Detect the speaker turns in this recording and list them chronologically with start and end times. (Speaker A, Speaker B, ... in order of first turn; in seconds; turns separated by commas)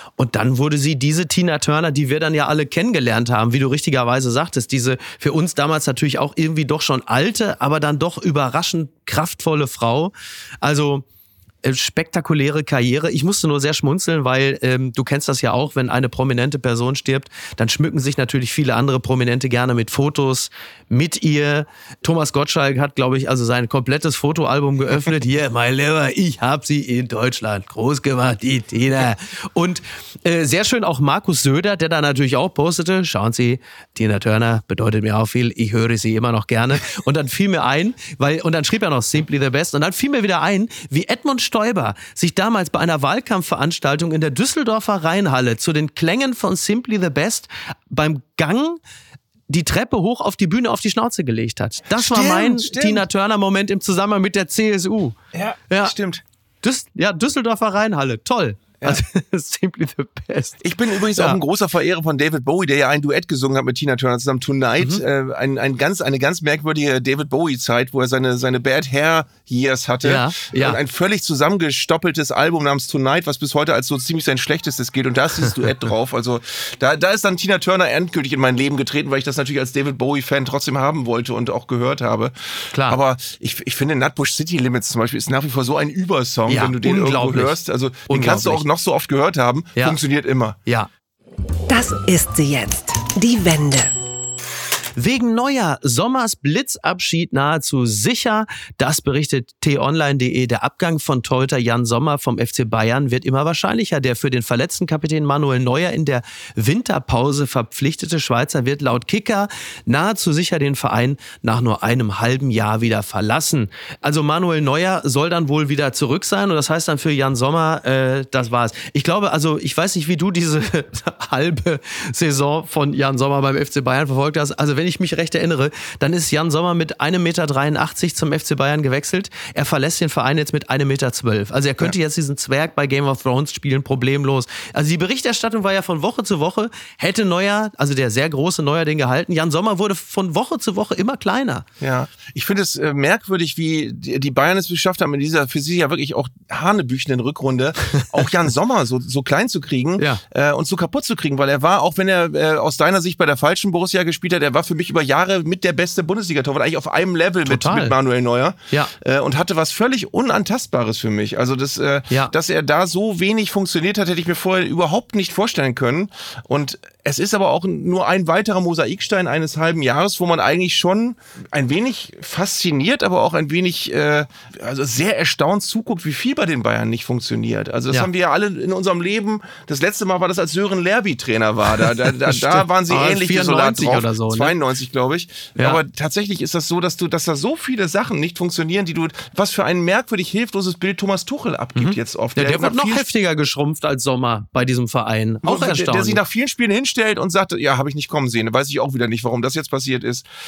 Speaker A: 0.2-11.0, Speaker A: 11.6-48.8, Speaker A: 49.5-55.2, Speaker B: 52.0-53.0, Speaker B: 55.3-56.2, Speaker A: 55.7-55.9, Speaker A: 56.6-61.4, Speaker B: 60.6-90.6, Speaker A: 70.0-70.8, Speaker A: 82.7-83.0, Speaker A: 86.5-87.6, Speaker A: 88.1-88.6, Speaker C: 91.7-93.9, Speaker A: 95.0-141.7, Speaker B: 141.8-193.0, Speaker A: 157.4-157.9, Speaker A: 181.8-184.5, Speaker A: 191.8-196.2, Speaker B: 195.4-200.2